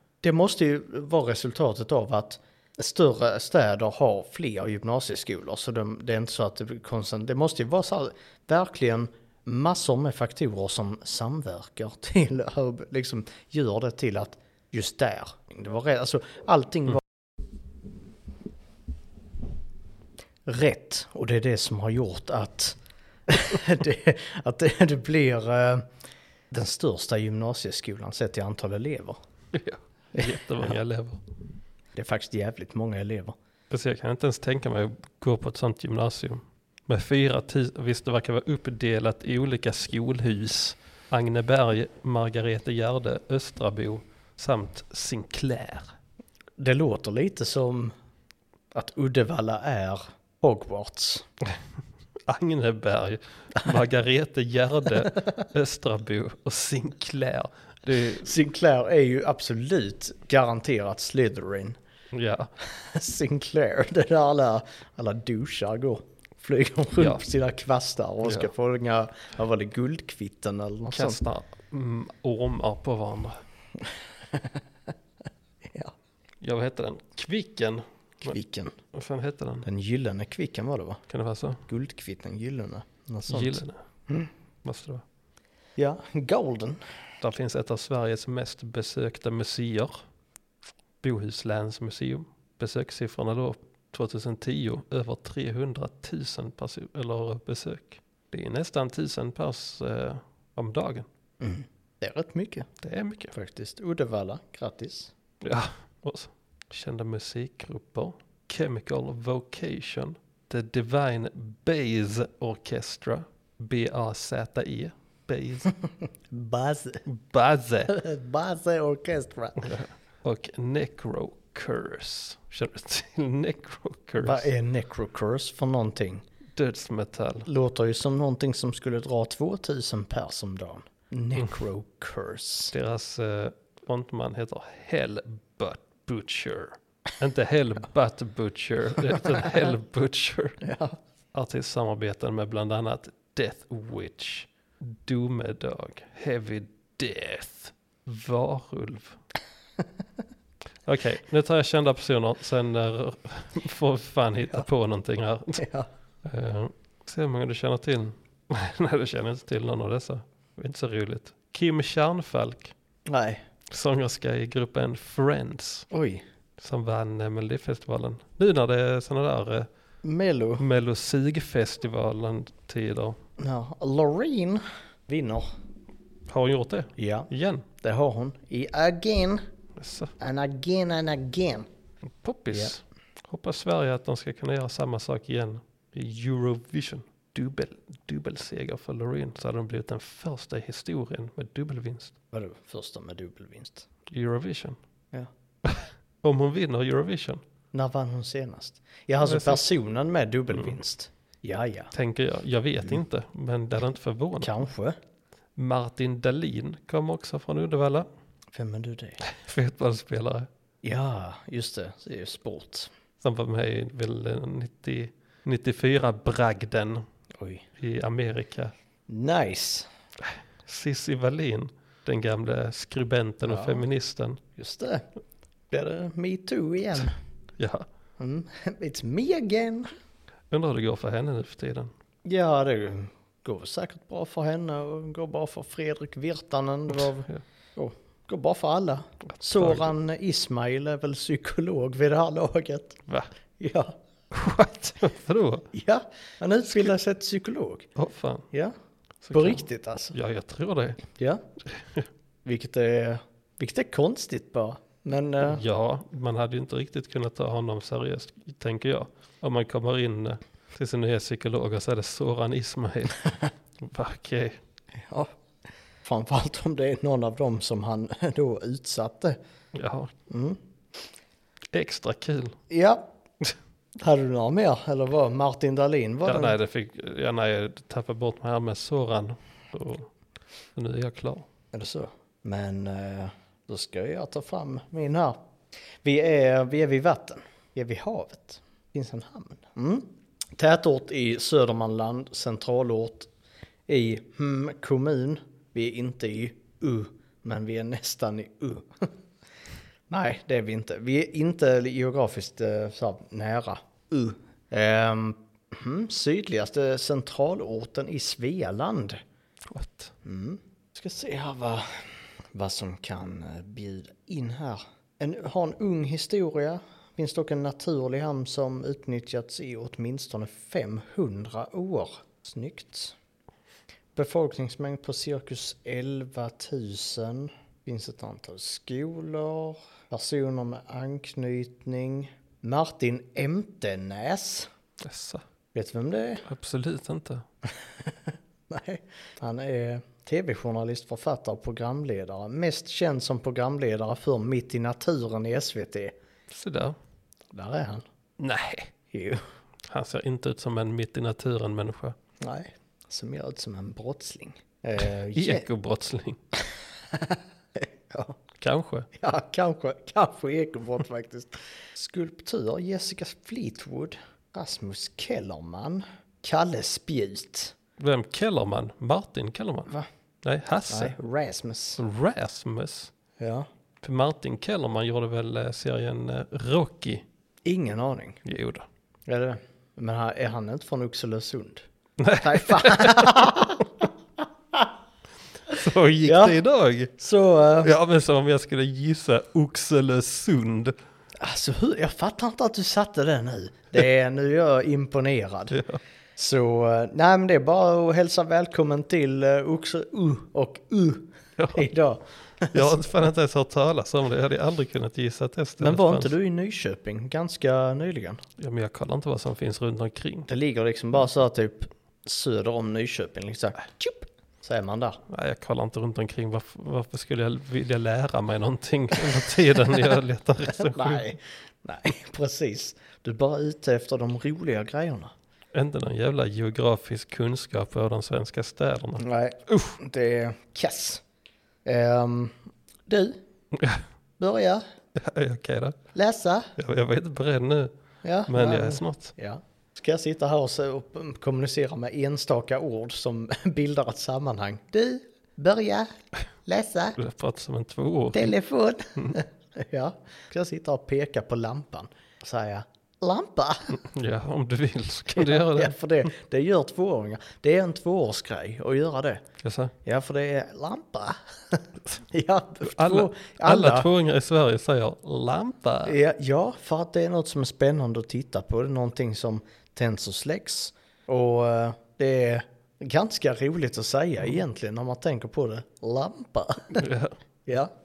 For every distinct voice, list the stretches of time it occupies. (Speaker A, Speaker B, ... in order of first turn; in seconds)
Speaker A: 0.2-17.0, 20.4-25.9, 26.5-29.2, 30.1-30.7, 31.9-33.4, 46.6-47.9, 48.7-51.2, 58.0-61.8, 62.6-71.2, 73.8-74.6, 75.6-75.9, 78.3-78.7, 79.6-81.0, 81.7-84.3, 85.8-86.8, 101.4-102.7, 103.3-105.1, 116.3-117.0, 117.9-119.8, 124.2-126.2, 127.5-132.7, 140.6-141.0, 155.6-155.9, 163.1-163.4, 165.9-166.2, 170.0-170.6, 173.4-175.5, 177.0-177.3, 177.8-179.4, 180.2-181.7, 192.3-193.9, 197.7-201.9, 204.4-205.0, 208.5-209.2, 210.8-212.9, 217.3-217.7, 219.1-219.9, 223.4-223.8, 224.6-225.0, 225.7-227.1, 228.2-229.9, 232.2-243.0, 243.6-244.0, 245.7-247.9, 249.3-250.1, 251.2-251.4, 252.4-255.6, 265.0-265.3, 266.0-269.4, 270.3-270.6, 272.7-273.1, 274.0-276.6, 281.7-285.4, 286.0-293.3, 293.9-299.1, 300.1-309.2, 310.2-323.2, 324.1-334.7, 335.7-336.4, 337.9-346.2, 347.5-348.1, 349.1-349.4, 352.4-355.7, 357.1-358.4, 359.1-367.8, 370.9-372.0, 373.4-373.7, 377.6-378.4, 379.3-381.9, 382.4-384.1, 386.2-386.6, 387.2-387.9, 391.4-395.8, 396.4-403.1, 405.8-408.4, 410.5-415.2, 420.7-425.3, 429.2-431.2, 431.9-433.4, 434.4-434.8, 436.1-436.7, 438.2-446.1, 446.6-447.2, 448.3-454.0, 455.3-459.4, 460.0-464.1, 466.1-477.1, 477.7-477.9
Speaker B: 29.5-31.2, 33.7-45.9, 52.3-58.3, 62.1-62.5, 70.9-73.4, 76.4-78.3, 78.9-79.7, 81.1-81.6, 83.3-83.8, 84.6-85.0, 87.2-90.0, 91.0-101.1, 102.8-103.3, 105.4-115.7, 117.1-117.9, 119.6-124.5, 126.6-127.5, 132.7-140.6, 141.3-149.2, 150.8-155.7, 156.2-162.7, 163.7-165.9, 166.6-169.7, 170.6-173.2, 176.3-177.7, 179.8-180.1, 182.2-192.1, 194.1-194.8, 195.6-197.4, 199.2-199.6, 201.9-204.6, 205.6-208.1, 209.2-210.5, 213.2-217.1, 217.8-218.7, 220.2-224.4, 227.6-227.9, 230.5-231.9, 237.0-237.4, 239.3-239.9, 244.3-245.7, 248.0-248.5, 249.2-251.0, 251.8-252.1, 255.4-264.6, 269.7-270.1, 271.7-272.6, 276.2-280.1, 280.8-281.5, 309.7-310.1, 335.0-335.4, 336.4-337.5, 346.5-347.0, 348.4-348.9, 349.9-352.2, 355.3-356.4, 358.6-359.1, 368.0-369.9, 370.4-371.2, 372.0-373.1, 374.0-377.2, 378.4-378.9, 382.2-383.7, 385.7-387.1, 387.8-390.9, 395.7-396.0, 401.6-401.9, 402.7-406.3, 408.6-410.5, 415.3-421.3, 425.7-430.0, 433.7-434.0, 435.2-436.0, 436.8-437.9, 438.5-439.3, 447.2-448.5, 453.9-455.9, 459.6-459.9, 462.8-466.2, 477.0-477.4